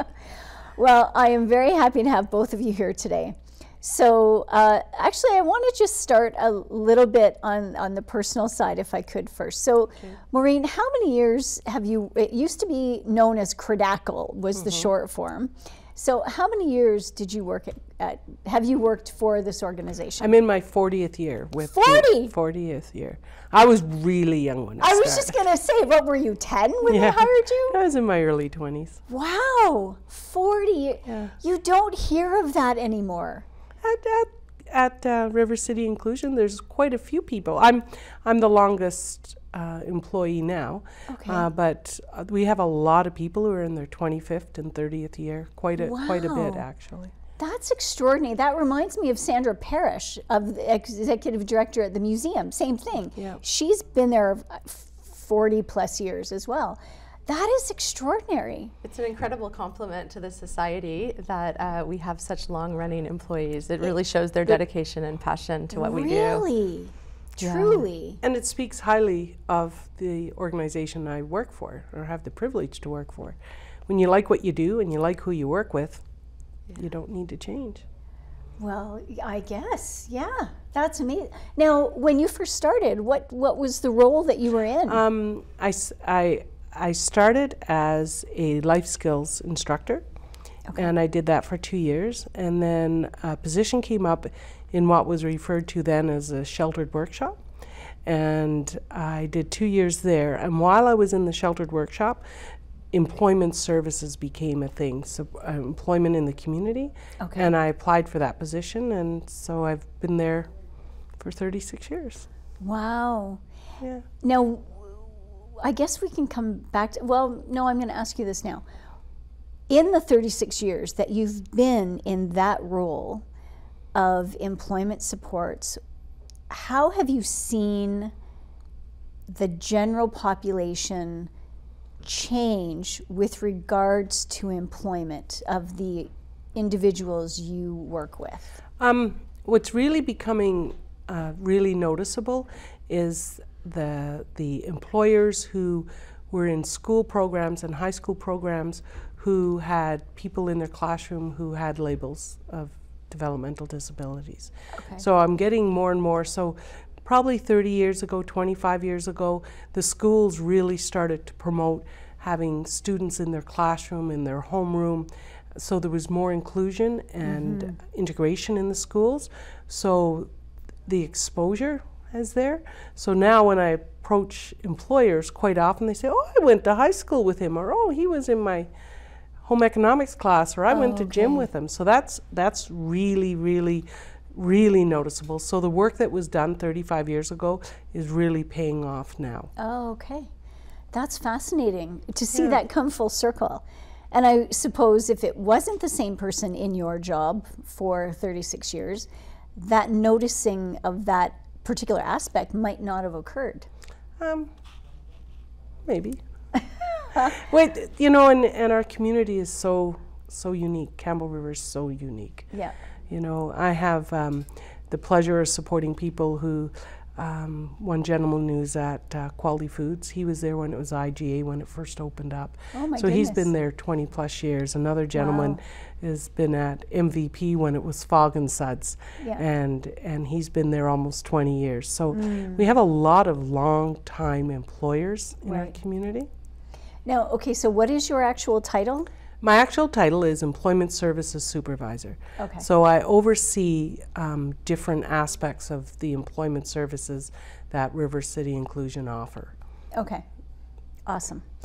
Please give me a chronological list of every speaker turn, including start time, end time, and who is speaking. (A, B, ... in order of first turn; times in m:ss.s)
0:00.8-0:20.3 A
0:14.6-0:14.9 B
0:20.2-0:25.4 B
0:21.7-0:22.3 A
0:24.8-0:27.8 A
0:26.9-0:29.0 B
0:29.1-0:33.4 A
0:31.1-0:31.3 B
0:33.8-0:47.1 B
0:41.1-0:41.5 A
0:45.8-0:46.6 A
0:47.4-0:58.7 A
0:53.2-0:53.4 B
0:58.8-1:06.5 C
1:05.7-1:08.2 A
1:07.5-1:16.0 B
1:16.8-1:17.8 B
1:18.6-1:25.0 A
1:24.9-1:30.0 B
1:30.8-1:37.4 B
1:38.0-1:50.5 B
1:47.2-1:47.5 A
1:51.2-1:52.3 B
1:52.6-1:53.4 A
1:53.8-1:54.1 B
1:54.2-1:55.1 A
1:55.6-1:58.6 A
1:59.7-2:03.2 A
2:03.9-2:05.8 A
2:06.5-2:08.1 A
2:09.3-2:11.3 A
2:12.0-2:18.5 A
2:18.8-2:50.3 B
2:34.7-2:35.0 A
2:47.2-2:47.8 A
2:50.9-2:58.7 B
2:59.4-3:09.5 B
3:00.7-3:01.5 A
3:09.6-3:10.3 A
3:10.9-3:23.7 A
3:12.3-3:12.6 B
3:24.2-3:24.5 B
3:25.9-3:26.2 B
3:27.1-3:27.4 A
3:27.3-3:32.5 B
3:33.1-3:56.3 B
3:42.7-3:43.5 A
3:45.2-3:45.6 A
3:52.1-3:52.6 A
3:55.5-3:55.7 A
3:57.1-3:59.1 A
3:59.4-4:09.5 B
4:02.4-4:02.7 A
4:09.9-4:10.2 A
4:11.1-4:11.5 A